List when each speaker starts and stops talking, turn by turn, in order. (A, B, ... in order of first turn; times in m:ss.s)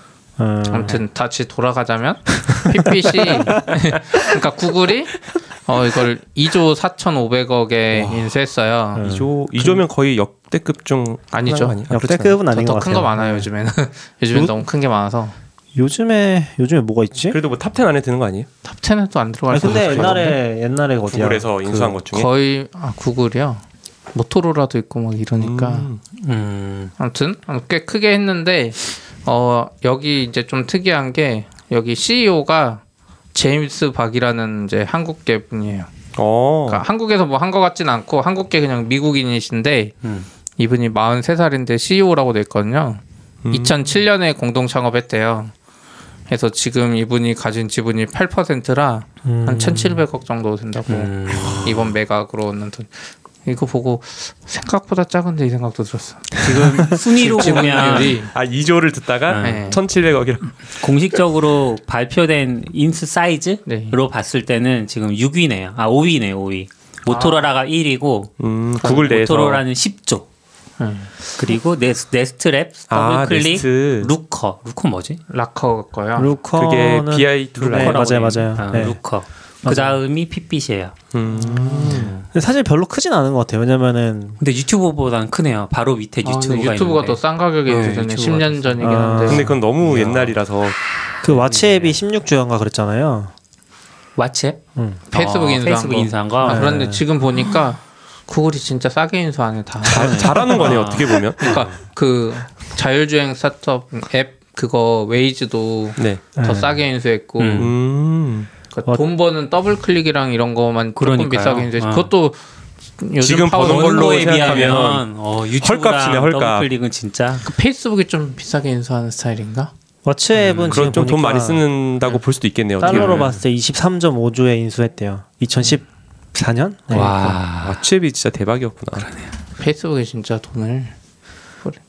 0:00.4-0:01.0 A
0:00.7-0:09.0 B
0:02.9-0:04.2 A
0:09.0-0:09.8 A
0:09.0-0:12.4 C
0:11.3-0:11.8 B
0:11.9-0:13.5 A
0:12.3-0:15.4 B
0:15.8-0:17.4 A
0:17.3-0:18.5 C
0:18.6-0:20.4 B
0:19.5-0:22.0 A
0:19.6-0:20.3 C
0:21.1-0:22.3 C
0:22.1-0:23.6 B
0:24.1-0:25.9 B
0:25.4-0:26.0 C
0:26.2-0:26.9 D
0:27.0-0:32.8 B
0:33.3-0:35.9 B
0:36.2-0:36.8 C
0:36.7-0:40.0 B
0:40.6-0:45.5 B
0:43.4-0:43.8 C
0:46.3-0:58.3 B
0:49.2-0:50.0 A
0:50.9-0:51.9 D
0:56.4-0:58.2 D
0:58.3-1:00.6 C
0:59.3-0:59.8 D
0:59.4-0:59.8 B
1:00.8-1:10.3 D
1:03.7-1:04.0 B
1:07.1-1:07.5 B
1:08.4-1:09.6 C
1:10.8-1:11.1 B
1:11.4-1:15.2 D
1:12.9-1:14.1 C
1:15.3-1:16.3 B
1:16.2-1:19.0 A
1:16.5-1:18.0 C
1:17.7-1:21.0 D
1:19.6-1:20.0 A
1:21.1-1:22.1 C
1:21.4-1:24.4 A
1:21.8-1:22.2 D
1:24.4-1:29.0 D
1:26.2-1:29.4 B
1:28.8-1:30.4 A
1:29.3-1:30.8 C
1:31.2-1:33.3 A
1:31.2-1:32.0 D
1:34.2-1:34.6 D
1:34.8-1:35.0 A
1:35.1-1:36.7 D
1:35.1-1:47.7 B
1:36.4-1:37.0 A
1:39.8-1:41.6 C
1:39.9-1:41.8 D
1:46.0-1:46.2 C
1:46.4-1:46.8 A
1:47.4-1:47.7 D
1:47.6-1:48.5 C
1:48.7-1:52.4 B
1:51.0-1:52.1 D
1:53.0-1:54.8 B
1:53.2-1:55.1 C
1:53.6-1:57.5 D
1:55.6-1:56.7 C
1:57.4-1:59.7 B
2:00.0-2:01.6 A
2:00.4-2:00.8 D
2:00.7-2:03.3 C
2:02.8-2:07.4 A
2:02.8-2:03.4 D
2:06.9-2:07.8 D
2:07.6-2:09.1 C
2:09.0-2:09.3 D
2:09.6-2:10.9 B